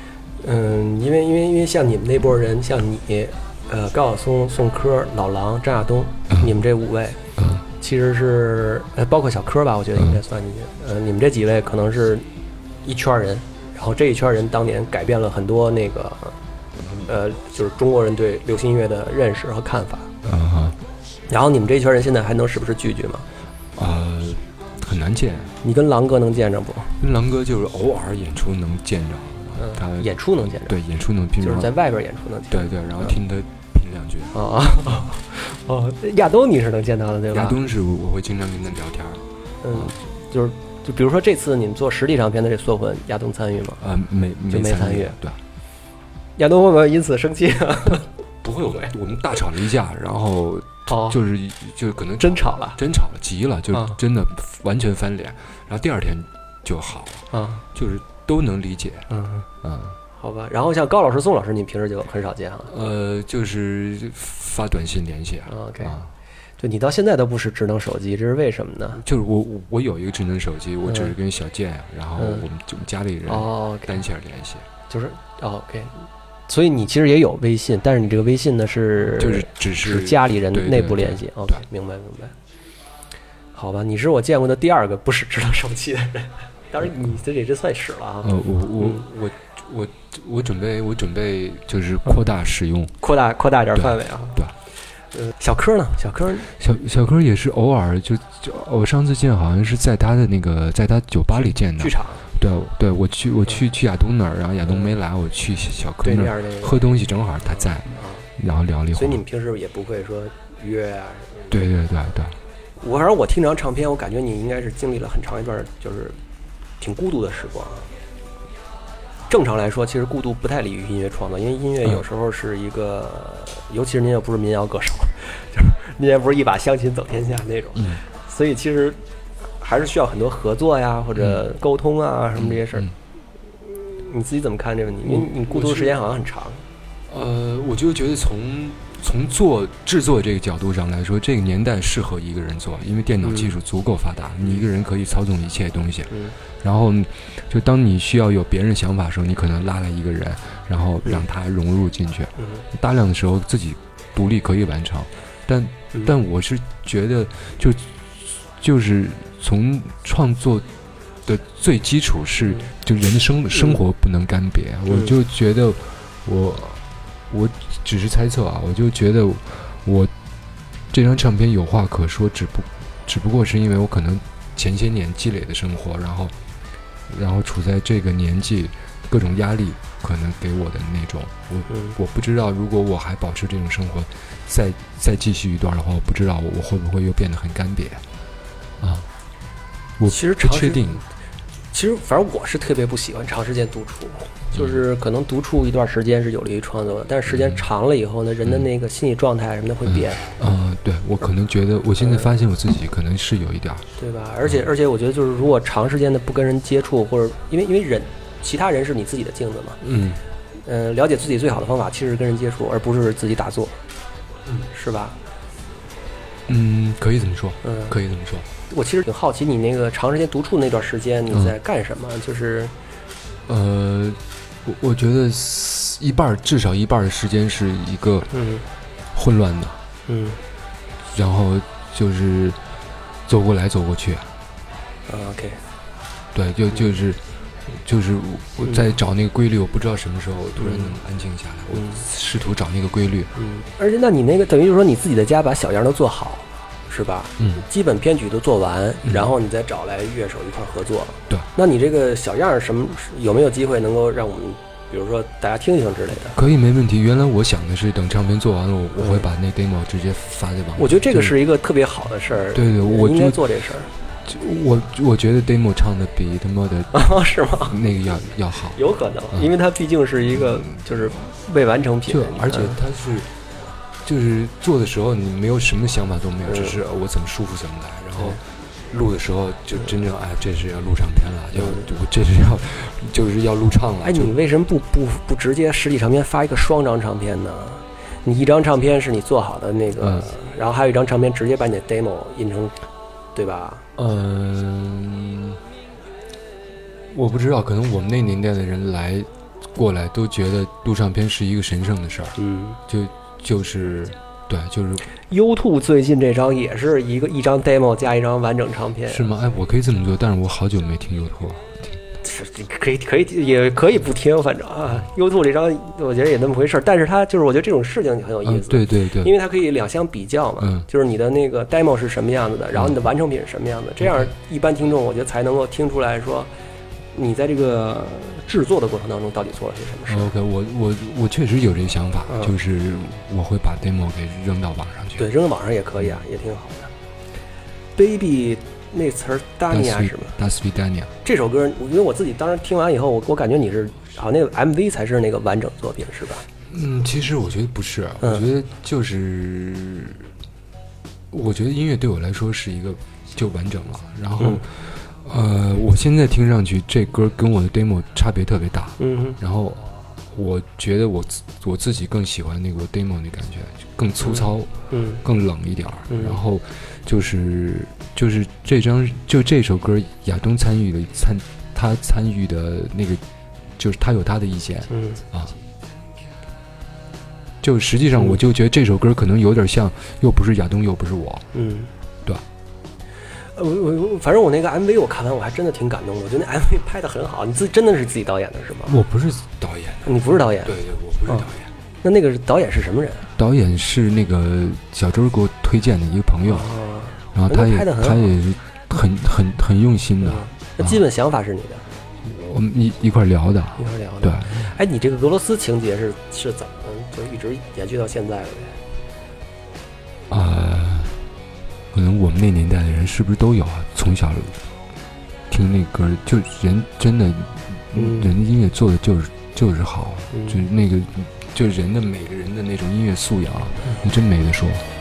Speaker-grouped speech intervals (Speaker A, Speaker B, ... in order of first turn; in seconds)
Speaker A: 0.4-12.3, 12.8-16.4, 17.1-20.1, 21.3-23.3, 25.6-27.0, 29.6-30.8, 31.4-33.2, 34.3-37.6, 39.6-43.8, 44.5-45.2, 46.4-48.1, 50.9-51.2, 52.2-52.8, 53.7-54.0, 57.3-57.6, 59.1-59.5, 60.1-62.7, 65.5-66.0, 66.6-69.0, 70.8-71.1, 72.2-72.5, 73.3-74.0, 74.9-82.3, 83.5-89.0, 93.0-94.5, 95.1-96.5, 101.7-102.3, 106.0-108.3, 108.9-111.7, 112.8-116.2, 116.8-117.9, 119.3-129.0, 129.6-132.9, 133.6-136.6, 143.2-143.6, 162.4-162.7, 163.5-163.8, 164.9-165.2, 181.7-182.0, 190.1-191.0, 191.7-200.3, 202.0-202.3, 204.0-209.8, 210.7-213.8, 214.7-215.2, 217.6-218.0, 218.7-222.7, 228.3-228.7, 230.1-230.4, 235.1-235.6, 240.6-240.9, 241.7-242.0, 243.4-256.4, 260.8-263.9, 266.9-267.8, 268.8-272.8, 276.4-276.8, 281.6-281.9, 284.0-292.8, 293.4-293.9, 302.4-302.8, 305.3-309.3, 312.2-326.5, 327.1-330.3, 335.2-336.9, 338.0-340.4, 341.2-346.4, 348.2-348.5, 354.4-354.6, 359.0-359.4, 364.2-365.2, 366.1-366.4, 374.9-375.2, 381.5-381.9, 383.5-389.0, 390.1-390.8, 392.0-393.3, 396.4-398.3, 400.2-401.8, 403.8-408.8, 417.9-418.4, 420.3-420.6
Speaker B: 7.4-7.6, 20.2-20.8, 23.8-25.5, 27.0-31.7, 32.5-34.4, 37.3-39.9, 43.8-45.4, 48.4-59.1, 59.6-60.0, 62.7-66.1, 69.0-74.7, 79.1-81.6, 88.2-92.9, 93.8-94.5, 96.6-109.2, 111.5-112.4, 131.2-131.5, 132.4-132.9, 135.1-136.0, 137.1-160.7, 161.3-170.1, 170.9-176.3, 177.1-188.1, 188.8-189.1, 190.0-191.0, 194.5-194.8, 197.3-197.6, 199.9-203.9, 209.8-210.2, 216.5-218.5, 223.5-228.3, 229.1-229.8, 231.1-232.6, 233.3-234.3, 236.3-243.3, 256.3-261.4, 262.5-263.5, 264.2-268.8, 270.4-270.8, 272.1-273.3, 274.0-284.4, 290.0-290.3, 294.0-295.6, 297.1-305.1, 309.1-312.0, 318.4-319.4, 320.6-320.9, 324.0-324.3, 330.1-335.3, 339.7-341.1, 346.7-350.3, 351.3-373.2, 373.8-375.6, 377.6-381.5, 388.9-391.7, 393.4-396.7, 397.3-401.0, 402.2-404.7, 410.3-411.2, 411.9-414.6, 415.5-424.9